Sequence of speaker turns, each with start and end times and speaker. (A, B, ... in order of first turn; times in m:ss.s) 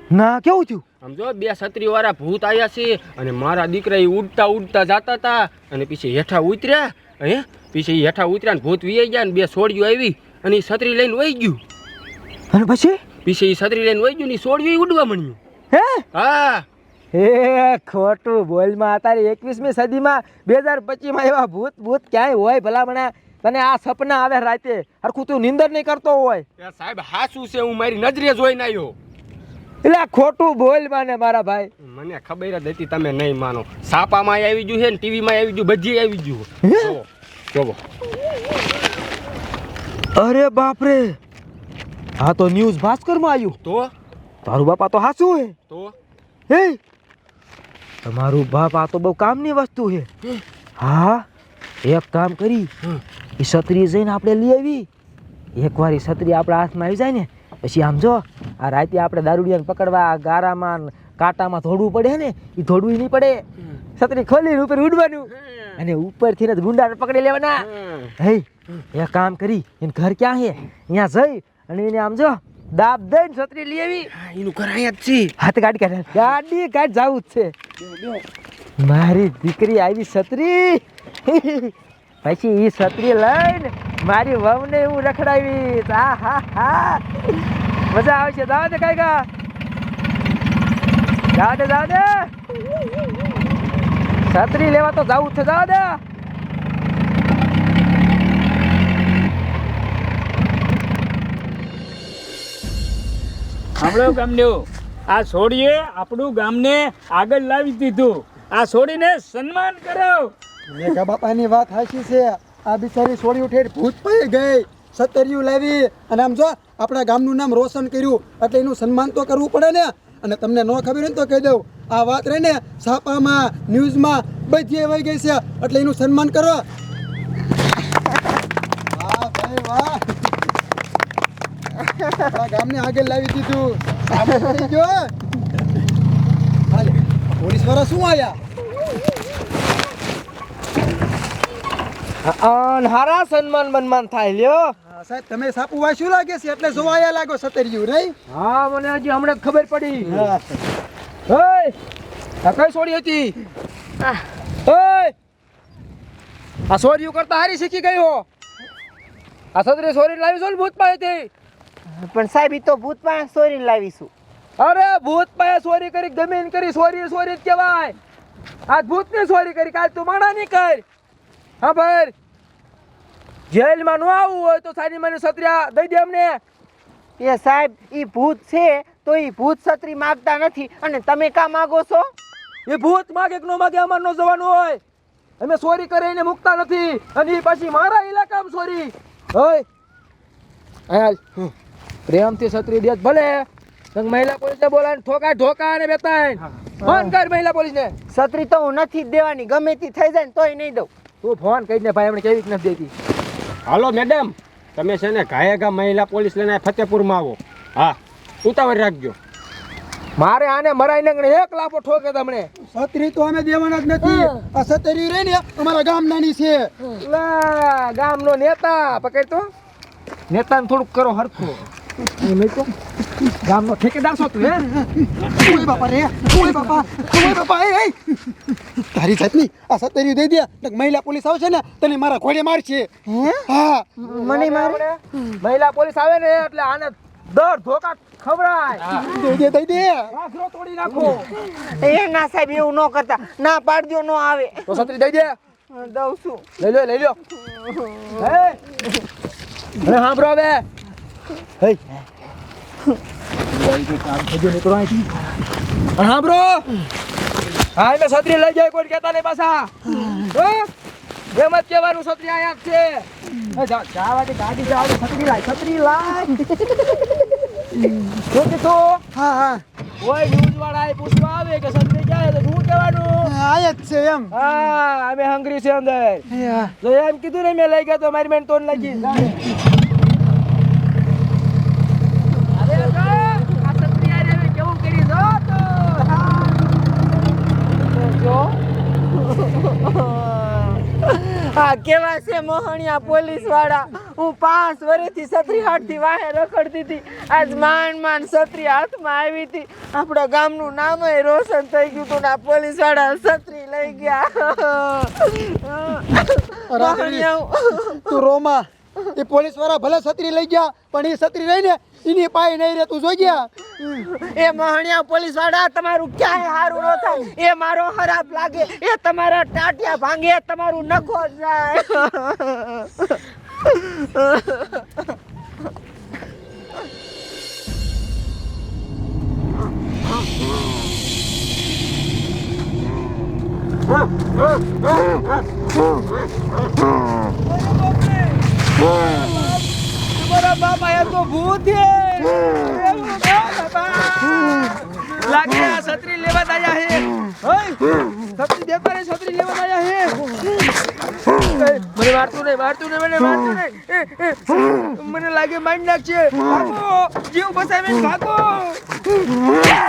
0:00.1-0:00.8 A
0:01.0-0:11.6 B
0:12.5-0:13.0 A
0:13.2-0:15.4 B
0:15.7-0:16.0 A
0:16.1-0:16.6 B
0:17.1-0:26.4 A
0:26.6-0:29.0 B
0:29.8-0:31.7 A
0:31.8-0:37.8 B
0:36.6-0:36.9 A
0:40.1-0:41.2 A
0:42.2-0:43.6 A
0:43.6-0:43.9 B
0:44.4-0:45.5 A
0:45.7-0:45.9 B
0:46.5-0:46.8 A
0:48.0-0:50.1 A
0:50.8-0:51.2 A
0:51.8-0:52.7 A
0:53.4-0:54.9 A
0:55.6-1:03.4 A
1:04.0-1:07.6 A
1:05.4-1:05.7 B
1:07.6-1:08.1 B
1:08.2-1:14.1 A
1:14.1-1:15.3 B
1:15.4-1:17.5 A
1:18.8-1:27.1 A
1:27.9-1:29.3 A
1:31.3-1:32.3 A
1:34.3-1:36.0 A
1:43.8-1:50.3 C
1:50.7-2:06.6 D
2:08.9-2:10.3 D
2:12.2-2:15.1 D
2:16.7-2:18.4 D
2:22.2-2:24.8 A
2:24.8-2:28.1 D
2:28.3-2:30.3 A
2:30.0-2:30.4 D
2:31.3-2:31.7 A
2:32.4-2:33.4 A
2:34.6-2:35.1 A
2:36.7-2:38.2 A
2:39.5-2:41.3 A
2:41.9-2:44.1 E
2:44.6-2:48.0 A
2:48.7-2:50.8 A
2:51.6-2:52.1 A
2:53.5-2:56.4 A
2:57.2-3:02.1 E
3:02.6-3:04.8 A
3:05.4-3:09.6 A
3:10.9-3:11.2 A
3:12.1-3:17.9 A
3:16.8-3:17.1 E
3:18.1-3:20.9 E
3:21.2-3:22.9 A
3:23.6-3:29.2 B
3:30.2-3:32.5 A
3:32.6-3:36.7 D
3:37.0-3:39.5 A
3:40.3-3:42.7 A
3:43.3-3:44.6 A
3:44.8-3:54.0 D
3:53.1-3:53.5 E
3:54.0-3:59.0 A
3:54.0-3:54.8 E
3:58.9-4:00.1 D
4:00.1-4:01.3 A
4:01.2-4:04.8 E
4:04.7-4:05.4 A
4:05.7-4:06.5 E
4:06.6-4:07.2 A
4:07.3-4:08.2 E
4:08.2-4:08.6 A
4:09.8-4:10.6 A
4:11.6-4:11.9 A
4:13.7-4:15.1 A
4:16.0-4:16.7 A
4:17.7-4:20.7 A
4:21.3-4:26.8 A
4:28.3-4:29.0 A
4:29.1-4:29.6 D
4:30.0-4:33.3 A
4:33.2-4:34.3 D
4:34.3-4:36.2 A
4:36.3-4:36.7 D
4:36.8-4:39.4 A
4:42.5-4:46.8 A
4:47.6-4:48.6 A
4:49.1-5:08.1 E
5:06.7-5:07.2 D
5:07.9-5:13.6 D
5:13.8-5:24.9 E
5:37.4-5:47.8 A
5:48.3-5:50.3 A
5:51.5-5:58.8 A